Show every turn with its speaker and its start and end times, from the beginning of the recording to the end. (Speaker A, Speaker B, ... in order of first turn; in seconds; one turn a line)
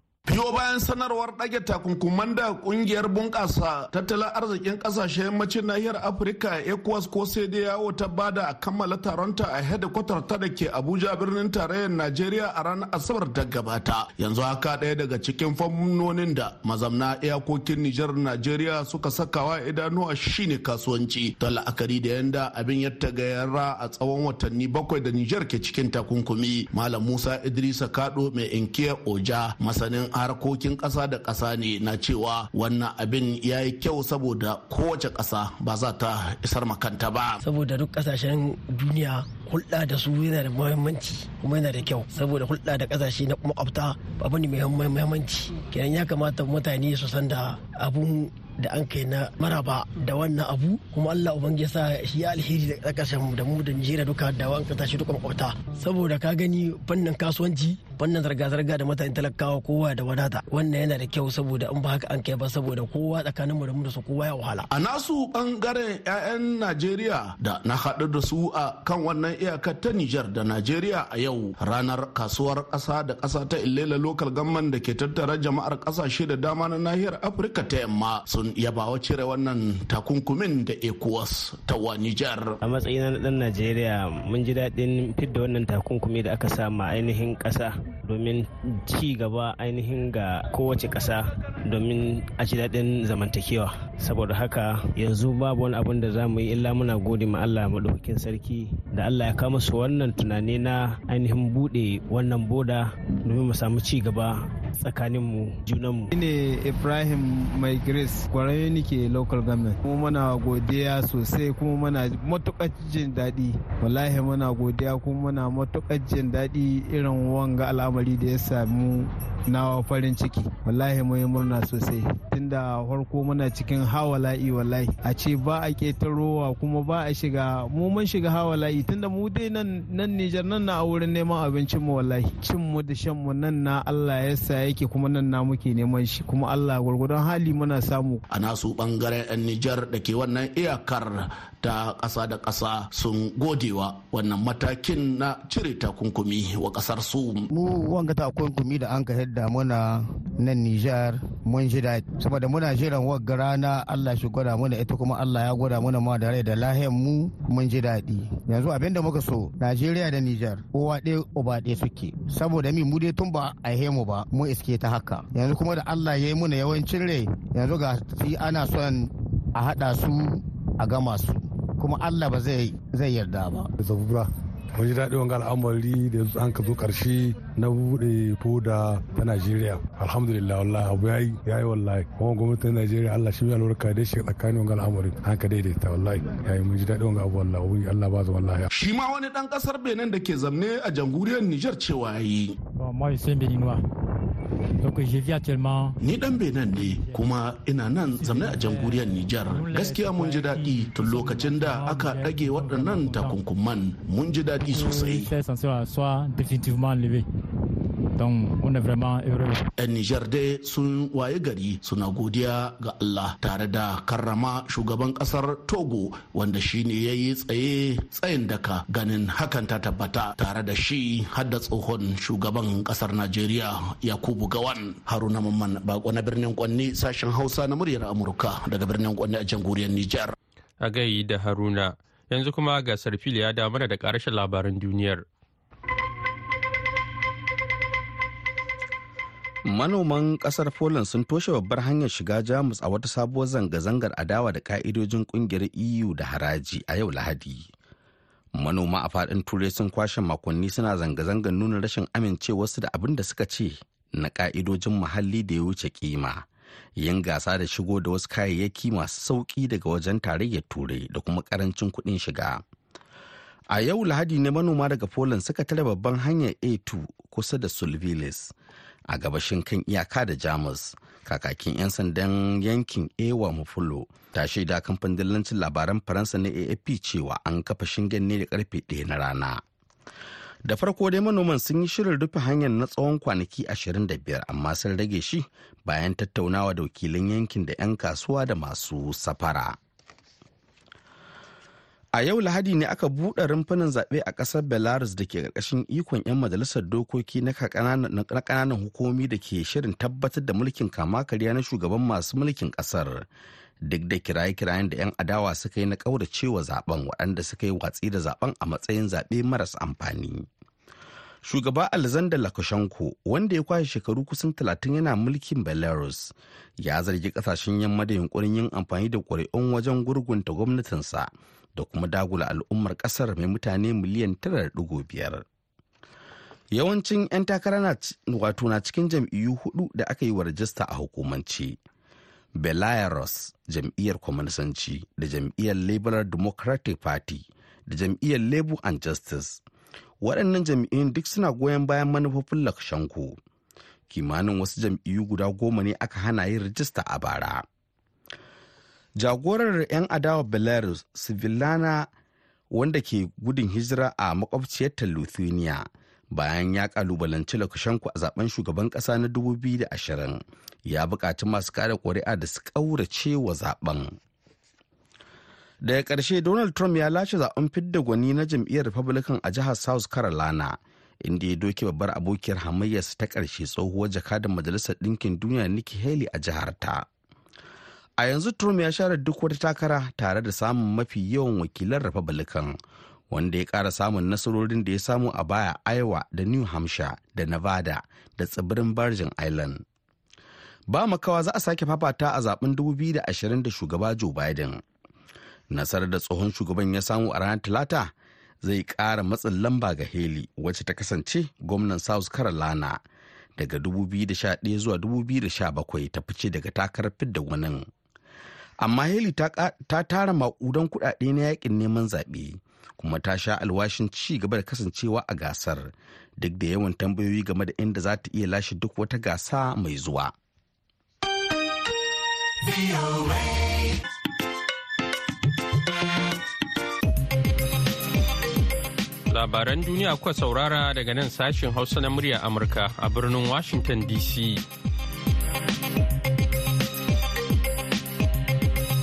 Speaker A: 0.3-37.4
Speaker B: 37.4-64.7
Speaker A: 64.7-82.5
Speaker C: 82.6-106.1
Speaker D: 106.1-138.2
Speaker A: 138.3-147.5
Speaker E: 147.5-173.7
Speaker F: 173.8-188.7
Speaker A: 188.7-192.6
Speaker G: 192.8-193.8
Speaker G: 194.8-196.0
Speaker A: 196.0-205.3
Speaker G: 196.8-197.3
Speaker G: 198.2-203.4
Speaker G: 204.6-207.3
Speaker G: 208.2-209.7
Speaker A: 209.8-230.3
Speaker H: 230.8-235.2
Speaker I: 239.7-247.7
Speaker I: 248.6-256.5
Speaker I: 257.0-262.6
Speaker I: 263.7-268.5
Speaker I: 269.1-279.6
Speaker I: 280.6-289.8
Speaker I: 292.1-303.3
Speaker I: 303.9-310.5
Speaker I: 311.4-325.4
Speaker I: 326.7-331.8
Speaker I: 332.6-339.6
Speaker I: 340.2-343.4
Speaker I: 344.1-347.6
Speaker I: 349.2-352.1
Speaker I: 352.7-364.2
Speaker I: 365.8-377.1
Speaker I: 378.2-382.8
Speaker I: 383.3-389.8
Speaker I: 390.9-394.8
Speaker I: 395.7-403.0
Speaker I: 403.6-407.9
Speaker I: 408.8-420.3
Speaker H: 429.3-434.6